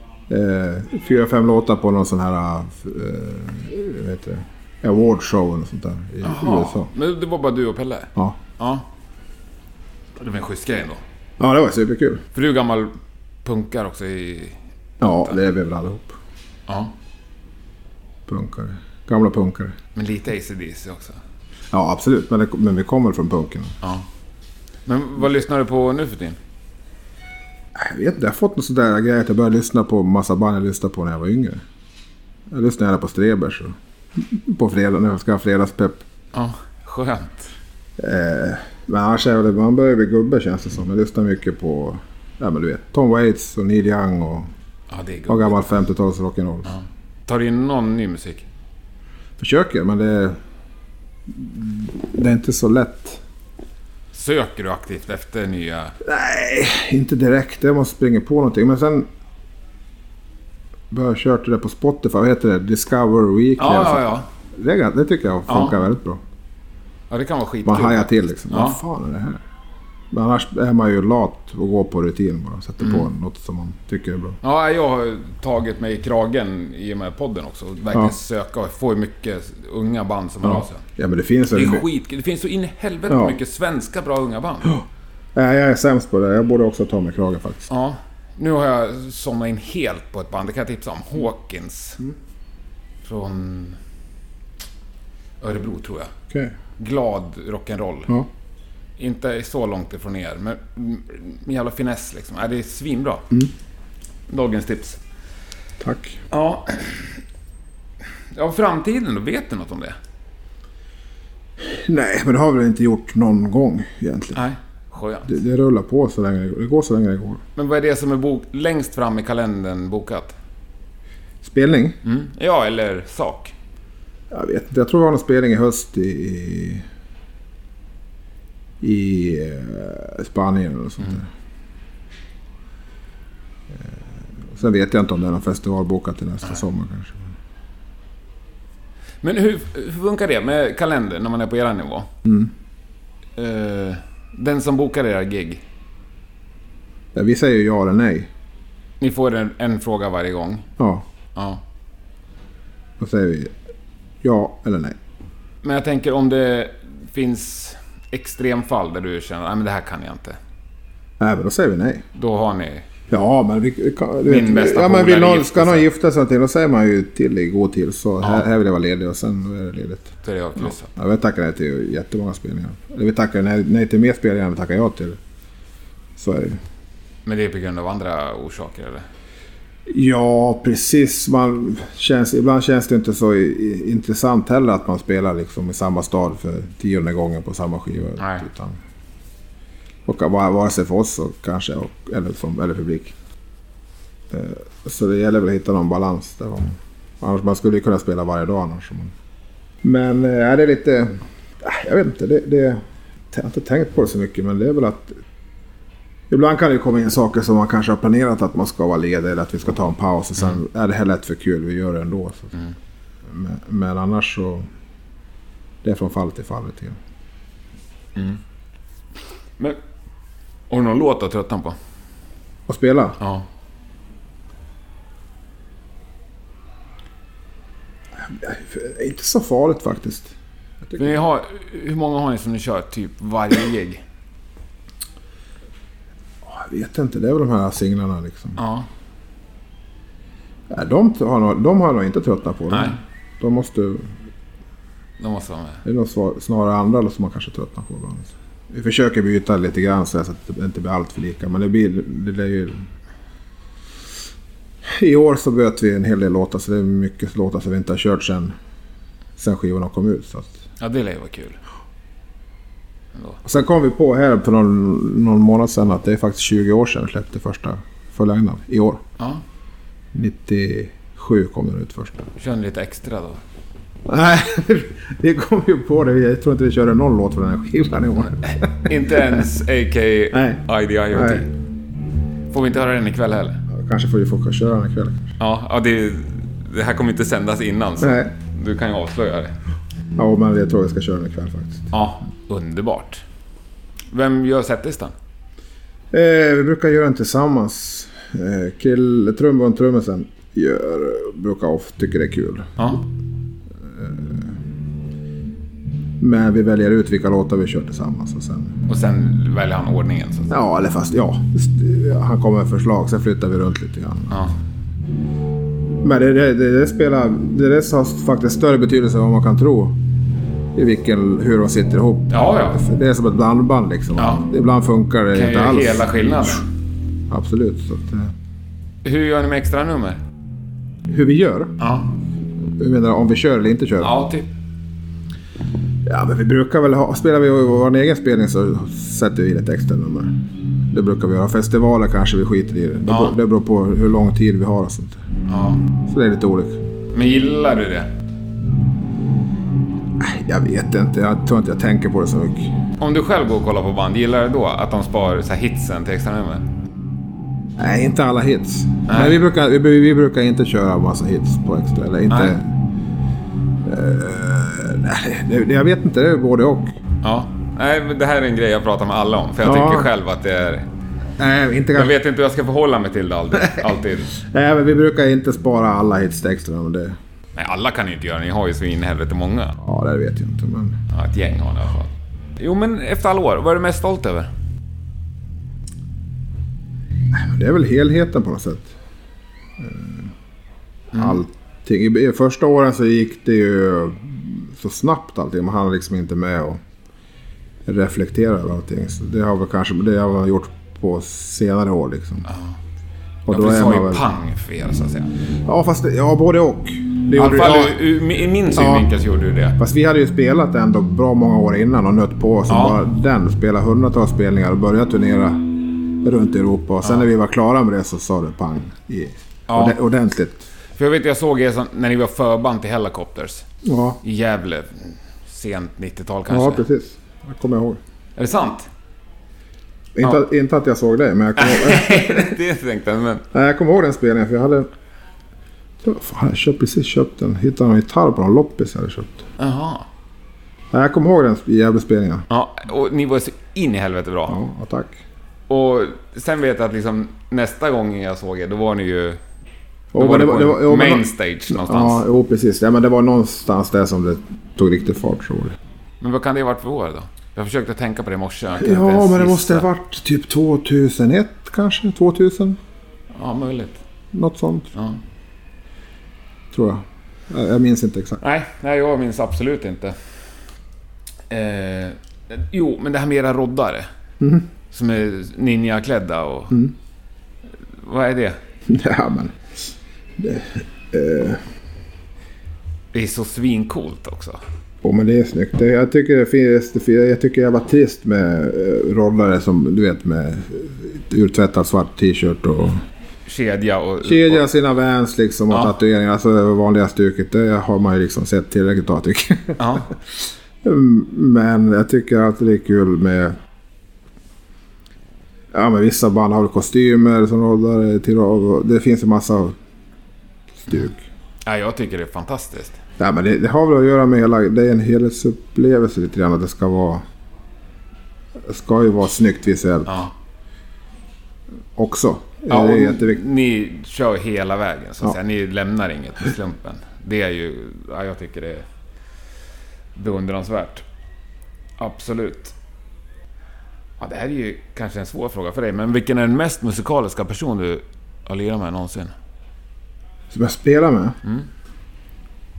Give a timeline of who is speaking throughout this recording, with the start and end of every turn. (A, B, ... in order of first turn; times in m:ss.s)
0:00.3-0:06.9 A
0:06.2-0:08.8 B
0:10.2-0:11.0 B
0:11.4-0:12.2 A
0:12.3-0:15.3 B
0:15.0-0:16.2 A
0:16.7-0:16.9 B
0:18.3-0:19.7 A
0:19.9-0:21.2 B
0:21.7-0:23.7 A
0:24.8-0:26.4 B
0:27.7-0:31.6 A
0:32.5-0:36.0 A
0:36.3-0:37.5 B
0:38.0-0:44.5 A
0:44.9-0:45.7 B
0:45.3-0:46.7 A
0:46.7-0:48.4 B
0:49.4-0:50.4 A
0:51.3-0:53.2 A
0:54.1-0:56.0 B
0:56.0-0:59.1 A
1:00.9-1:06.2 A
1:03.6-1:04.3 B
1:05.5-1:05.7 B
1:07.1-1:08.8 B
1:07.6-1:09.4 A
1:10.1-1:14.4 A
1:12.8-1:13.1 B
1:14.4-1:20.8 B
1:20.4-1:21.8 A
1:21.5-1:24.8 B
1:23.1-1:23.4 A
1:25.3-1:27.7 A
1:27.7-1:32.0 B
1:33.0-1:33.8 B
1:35.4-1:36.1 B
1:36.8-1:38.1 B
1:39.0-1:43.2 B
1:44.3-1:45.0 B
1:45.8-1:46.2 A
1:46.3-1:47.2 B
1:48.3-1:50.0 B
1:51.6-1:54.4 A
1:54.3-1:55.3 B
1:55.2-1:57.4 A
1:57.6-2:00.3 B
2:01.4-2:02.0 A
2:02.0-2:03.5 B
2:04.3-2:06.8 A
2:08.8-2:11.3 A
2:14.5-2:17.2 A
2:19.2-2:22.1 B
2:22.2-2:22.5 A
2:23.4-2:25.6 B
2:27.1-2:28.3 A
2:29.0-2:30.7 B
2:30.8-2:31.0 A
2:31.3-2:31.6 B
2:33.0-2:33.5 A
2:34.2-2:35.0 A
2:35.6-2:40.4 B
2:41.2-2:42.0 A
2:42.1-2:42.8 B
2:43.1-2:55.2 A
2:44.2-2:45.9 B
2:48.2-2:48.4 B
2:50.2-2:50.9 B
2:56.2-2:56.6 A
2:57.2-2:59.0 B
2:59.9-3:08.8 A
3:08.2-3:08.4 B
3:10.0-3:13.1 A
3:14.3-3:19.1 A
3:19.8-3:25.2 A
3:26.3-3:32.5 A
3:33.3-3:34.7 A
3:35.8-3:37.0 A
3:38.1-3:38.4 B
3:40.7-3:41.8 B
3:42.7-3:43.2 A
3:43.2-3:43.5 B
3:48.2-3:50.3 A
3:50.8-3:51.2 A
3:51.0-3:54.0 B
3:56.4-3:58.6 A
3:58.6-3:58.9 B
4:00.7-4:04.1 A
4:02.7-4:03.0 B
4:05.2-4:05.8 B
4:05.8-4:12.9 A
4:15.0-4:18.5 A
4:19.4-4:20.5 A
4:20.8-4:21.6 B
4:23.4-4:29.0 A
4:30.1-4:32.3 A
4:32.4-4:33.4 B
4:34.1-4:39.3 A
4:38.5-4:41.5 B
4:40.3-4:41.4 A
4:42.5-4:43.6 B
4:43.7-4:45.3 A
4:45.4-4:49.6 B
4:48.0-4:48.3 A
4:50.2-4:51.9 A
4:51.9-4:53.2 B
4:54.1-4:55.1 B
4:56.1-5:02.8 A
5:02.8-5:03.0 B
5:03.9-5:04.6 A
5:06.2-5:08.7 A
5:08.9-5:10.5 B
5:10.5-5:14.4 A
5:16.0-5:20.0 A
5:20.7-5:26.2 A
5:22.3-5:22.8 B
5:24.2-5:24.4 B
5:25.3-5:26.6 B
5:27.3-5:28.3 A
5:29.0-5:30.2 B
5:31.1-5:31.7 A
5:31.8-5:32.1 B
5:32.8-5:34.1 A
5:34.0-5:34.5 B
5:36.0-5:40.3 A
5:40.9-5:45.2 A
5:43.1-5:43.3 B
5:45.5-5:45.8 B
5:46.0-5:46.8 A
5:47.1-5:48.1 B
5:50.2-5:52.7 A
5:53.0-5:56.7 B
5:57.8-6:02.7 A
5:59.1-5:59.4 B
6:02.3-6:02.6 B
6:03.8-6:06.9 A
6:07.2-6:10.9 B
6:09.6-6:10.1 A
6:11.4-6:12.1 A
6:11.9-6:14.3 B
6:14.3-6:17.2 A
6:17.6-6:19.7 B
6:19.8-6:21.0 A
6:21.1-6:24.5 B
6:27.3-6:28.9 A
6:29.8-6:30.3 A
6:31.1-6:31.4 B
6:31.1-6:36.8 A
6:37.8-6:42.5 A
6:42.5-6:42.7 B
6:43.4-6:44.2 A
6:43.5-6:45.3 B
6:45.6-6:48.0 A
6:47.3-6:49.8 B
6:48.7-6:49.1 A
6:49.8-6:55.7 A
6:52.7-6:53.0 B
6:56.2-7:00.6 A
6:59.7-7:00.0 B
7:00.9-7:03.6 B
7:03.8-7:04.2 A
7:04.2-7:06.8 B
7:06.5-7:08.0 A
7:08.4-7:08.9 B
7:10.2-7:12.5 A
7:11.6-7:13.4 B
7:13.5-7:14.9 A
7:16.0-7:19.5 A
7:19.6-7:20.1 B
7:20.9-7:22.4 A
7:22.5-7:24.5 B
7:24.5-7:25.2 A
7:25.7-7:29.4 B
7:30.1-7:35.7 A
7:30.1-7:32.2 B
7:36.2-7:39.9 B
7:38.8-7:42.8 A
7:43.3-7:44.0 B
7:44.3-7:44.9 A
7:44.9-7:45.2 B
7:46.7-7:48.4 A
7:48.4-7:50.1 B
7:51.5-7:54.1 B
7:54.4-7:54.7 A
7:54.9-7:56.7 B
7:57.9-7:58.6 B
7:58.9-7:59.6 A
8:00.4-8:01.6 A
8:03.1-8:04.6 B
8:05.0-8:13.0 A
8:13.4-8:14.6 B
8:14.2-8:20.1 A
8:19.8-8:20.0 B
8:20.8-8:23.5 A
8:25.7-8:29.7 A
8:30.8-8:31.2 A
8:31.6-8:33.0 B
8:33.2-8:37.2 A
8:38.6-8:40.2 A
8:40.1-8:40.3 B
8:42.0-8:43.4 A
8:42.7-8:48.8 B
8:50.1-8:51.0 B
8:52.0-8:52.8 B
8:54.2-8:59.3 B
9:00.5-9:01.4 A